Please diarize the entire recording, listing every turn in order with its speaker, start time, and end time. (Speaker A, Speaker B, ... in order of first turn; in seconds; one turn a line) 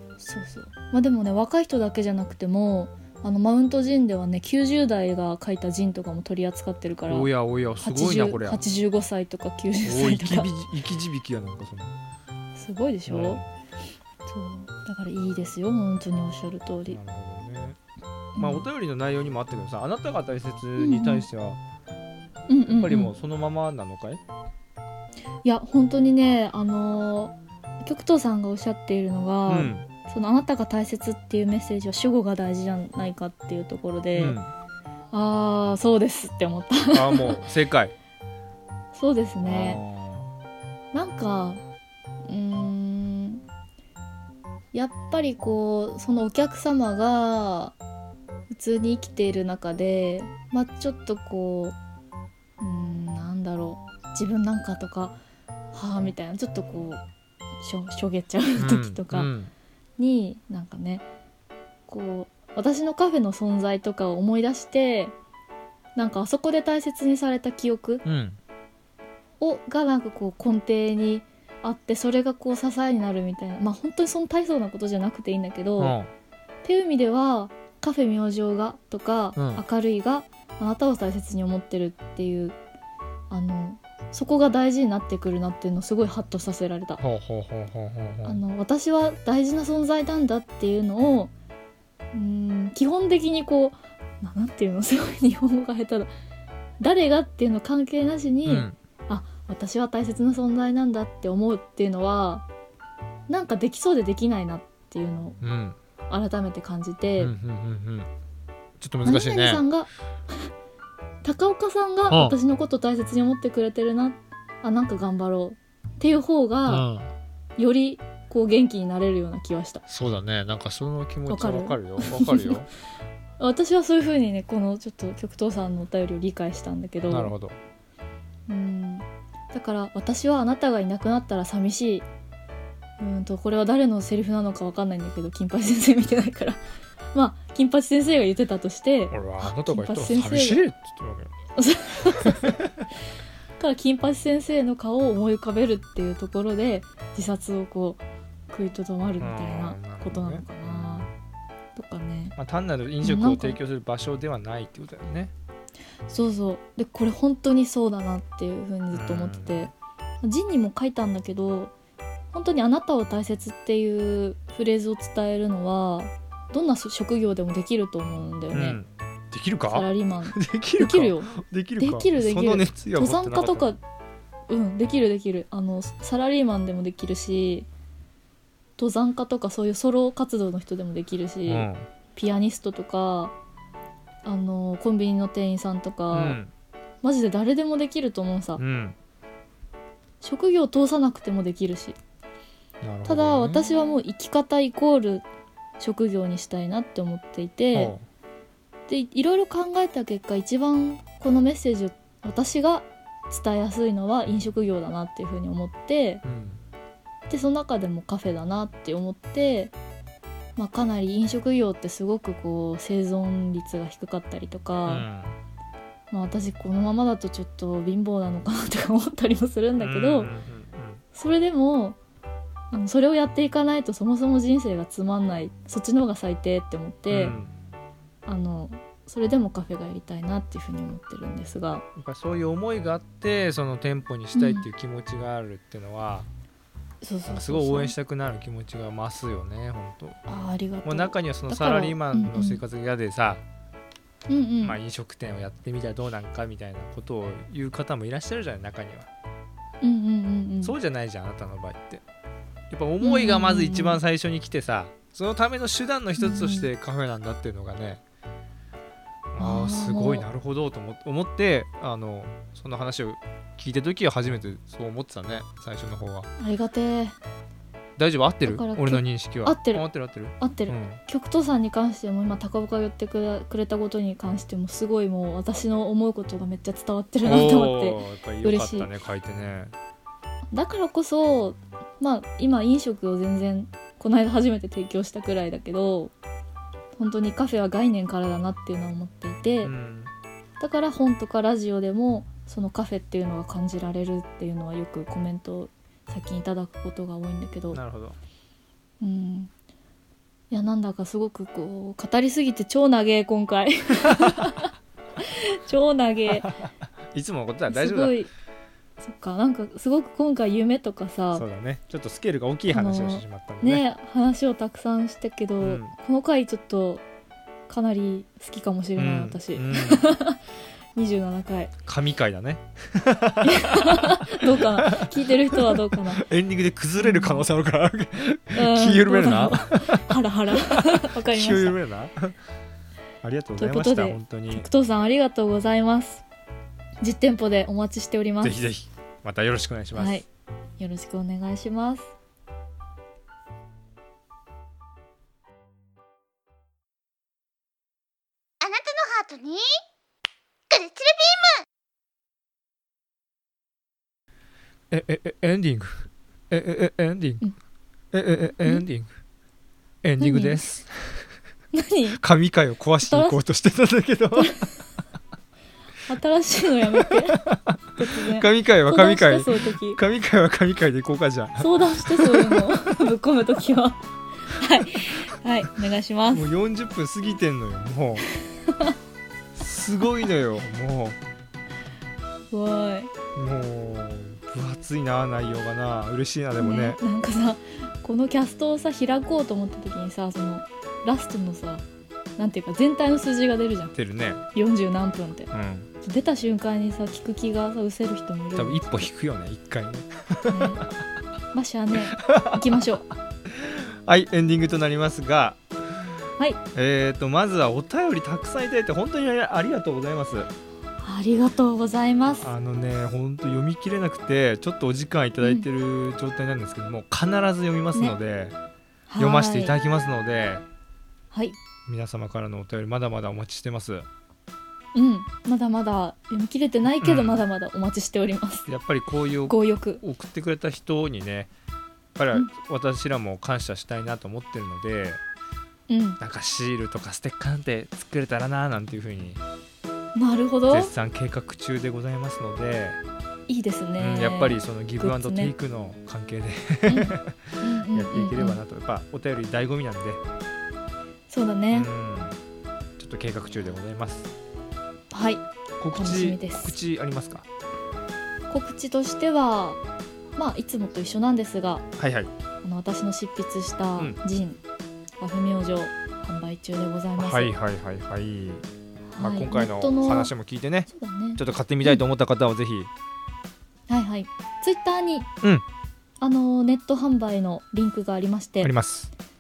Speaker A: 0.2-7.3
Speaker B: 7.1-8.6
Speaker A: 7.8-10.5
Speaker B: 9.8-12.0
Speaker A: 12.6-13.4
Speaker B: 13.1-13.4
Speaker A: 14.3-17.0
Speaker B: 16.9-17.8
Speaker A: 18.4-18.7
Speaker B: 18.4-21.6
Speaker A: 20.8-21.3
Speaker A: 22.5-23.1
Speaker B: 22.7-24.2
Speaker A: 25.4-34.4
Speaker B: 29.5-29.9
Speaker B: 34.2-34.5
Speaker A: 35.1-37.5
Speaker B: 36.9-37.9
Speaker A: 38.9-39.8
Speaker B: 39.4-40.3
Speaker A: 40.9-41.6
Speaker A: 42.3-43.4
Speaker A: 44.7-47.8
Speaker A: 48.5-51.8
Speaker A: 52.6-55.2
Speaker A: 55.7-57.0
Speaker A: 57.6-59.3
Speaker B: 58.6-59.5
Speaker A: 60.0-61.0
Speaker A: 61.9-65.1
Speaker A: 66.0-68.0
Speaker B: 68.0-68.4
Speaker A: 69.4-76.0
Speaker B: 75.8-76.1
Speaker A: 76.6-82.6
Speaker B: 79.4-79.6
Speaker A: 83.3-87.0
Speaker B: 87.0-88.4
Speaker A: 88.2-91.3
Speaker A: 92.1-96.1
Speaker A: 96.8-102.5
Speaker B: 98.5-98.8
Speaker A: 103.3-105.4
Speaker B: 105.4-105.8
Speaker A: 106.1-107.3
Speaker B: 107.2-108.1
Speaker B: 108.8-109.6
Speaker A: 109.0-110.5
Speaker A: 111.2-116.9
Speaker B: 112.1-112.4
Speaker B: 116.7-117.1
Speaker A: 117.6-119.8
Speaker B: 119.9-122.7
Speaker A: 121.3-122.7
Speaker A: 123.4-127.3
Speaker B: 127.1-127.6
Speaker A: 128.5-132.1
Speaker A: 133.0-136.6
Speaker A: 137.1-140.6
Speaker B: 139.1-141.3
Speaker A: 141.6-142.6
Speaker B: 142.1-142.8
Speaker A: 143.6-151.1
Speaker B: 149.2-151.1
Speaker A: 151.8-152.4
Speaker B: 152.4-155.3
Speaker A: 153.0-153.6
Speaker A: 156.1-159.7
Speaker B: 158.9-159.6
Speaker A: 160.2-161.7
Speaker A: 162.3-168.8
Speaker B: 168.5-173.7
Speaker A: 169.7-173.8
Speaker A: 174.5-177.7
Speaker A: 178.8-183.3
Speaker B: 181.5-181.9
Speaker A: 184.2-186.4
Speaker B: 186.1-186.5
Speaker A: 187.0-188.6
Speaker B: 188.6-189.0
Speaker A: 190.2-192.0
Speaker B: 192.8-193.6
Speaker A: 193.1-195.3
Speaker A: 195.8-197.9
Speaker B: 197.7-198.0
Speaker A: 198.9-206.2
Speaker B: 206.2-206.6
Speaker A: 207.3-209.7
Speaker A: 210.6-215.1
Speaker B: 214.9-215.4
Speaker A: 216.1-220.3
Speaker B: 219.8-221.0
Speaker A: 221.1-222.0
Speaker A: 222.7-227.4
Speaker B: 227.1-227.5
Speaker A: 228.3-231.8
Speaker B: 231.9-236.3
Speaker A: 234.3-234.7
Speaker A: 237.0-237.9
Speaker B: 237.3-240.2
Speaker A: 240.3-242.6
Speaker B: 240.8-243.4
Speaker A: 244.3-244.8
Speaker B: 244.6-249.1
Speaker A: 249.8-250.8
Speaker B: 250.6-252.0
Speaker B: 252.7-258.0
Speaker A: 253.0-254.0
Speaker A: 256.2-256.7
Speaker B: 259.3-266.3
Speaker A: 259.4-260.3
Speaker A: 266.4-267.2
Speaker B: 268.0-271.0
Speaker A: 268.5-269.8
Speaker A: 270.4-278.9
Speaker B: 277.2-279.8
Speaker A: 280.5-286.1
Speaker A: 287.0-289.7
Speaker B: 289.6-290.1
Speaker A: 290.6-297.8
Speaker B: 297.7-298.2
Speaker A: 299.0-299.5
Speaker A: 300.5-306.5
Speaker B: 304.1-304.5
Speaker B: 306.4-308.2
Speaker A: 307.7-308.3
Speaker A: 309.0-311.4
Speaker B: 311.3-313.8
Speaker A: 312.7-317.0
Speaker B: 315.6-315.9
Speaker A: 317.7-320.4
Speaker B: 319.0-320.1
Speaker A: 321.0-321.7
Speaker B: 321.9-332.4
Speaker A: 323.4-326.2
Speaker A: 327.0-327.5
Speaker A: 328.5-331.8
Speaker B: 333.2-334.7
Speaker A: 333.6-336.2
Speaker A: 337.0-338.6
Speaker B: 338.4-340.2
Speaker A: 339.9-340.3
Speaker A: 340.8-342.1
Speaker C: 348.6-349.6
Speaker C: 350.7-351.6
Speaker B: 354.9-357.4
Speaker B: 358.1-359.1
Speaker B: 360.0-361.2
Speaker A: 360.2-360.6
Speaker A: 361.7-362.2
Speaker B: 362.2-364.7
Speaker A: 363.1-363.4
Speaker A: 364.4-364.7
Speaker A: 366.1-367.4
Speaker B: 366.9-372.8
Speaker A: 367.9-370.0
Speaker A: 371.6-376.5
Speaker B: 376.3-378.2
Speaker A: 378.6-379.0
Speaker B: 379.6-381.2
Speaker A: 382.5-383.1
Speaker B: 383.4-387.0
Speaker A: 386.6-391.8
Speaker A: 392.4-393.9
Speaker B: 393.9-394.4
Speaker A: 394.5-395.5
Speaker B: 395.5-395.9
Speaker A: 396.0-399.1
Speaker B: 398.6-400.9
Speaker A: 400.5-400.9
Speaker A: 401.5-403.1
Speaker B: 402.2-406.2
Speaker B: 406.7-410.5
Speaker A: 411.0-412.5
Speaker B: 412.4-418.6
Speaker A: 415.4-415.7
Speaker A: 419.1-419.8
Speaker B: 419.2-420.6
Speaker A: 421.3-421.6
Speaker B: 421.9-424.1
Speaker A: 424.9-428.7
Speaker B: 427.0-427.4
Speaker B: 428.7-431.5
Speaker A: 429.5-430.0
Speaker B: 432.2-435.2
Speaker A: 435.9-436.2
Speaker B: 436.2-439.4
Speaker A: 440.2-440.9
Speaker B: 440.7-443.0
Speaker A: 443.5-445.5
Speaker B: 444.0-450.2
Speaker A: 446.9-448.6
Speaker A: 451.3-451.9
Speaker B: 451.7-452.4
Speaker B: 453.0-454.3
Speaker A: 455.1-456.8
Speaker B: 455.8-457.5
Speaker A: 458.5-459.8
Speaker A: 460.4-461.9
Speaker B: 462.0-462.3
Speaker A: 462.6-464.6
Speaker A: 465.2-467.5
Speaker B: 467.2-468.7
Speaker A: 469.1-470.3
Speaker B: 469.2-472.9
Speaker A: 470.9-472.0
Speaker A: 473.9-475.3
Speaker A: 476.2-478.7
Speaker B: 478.6-479.1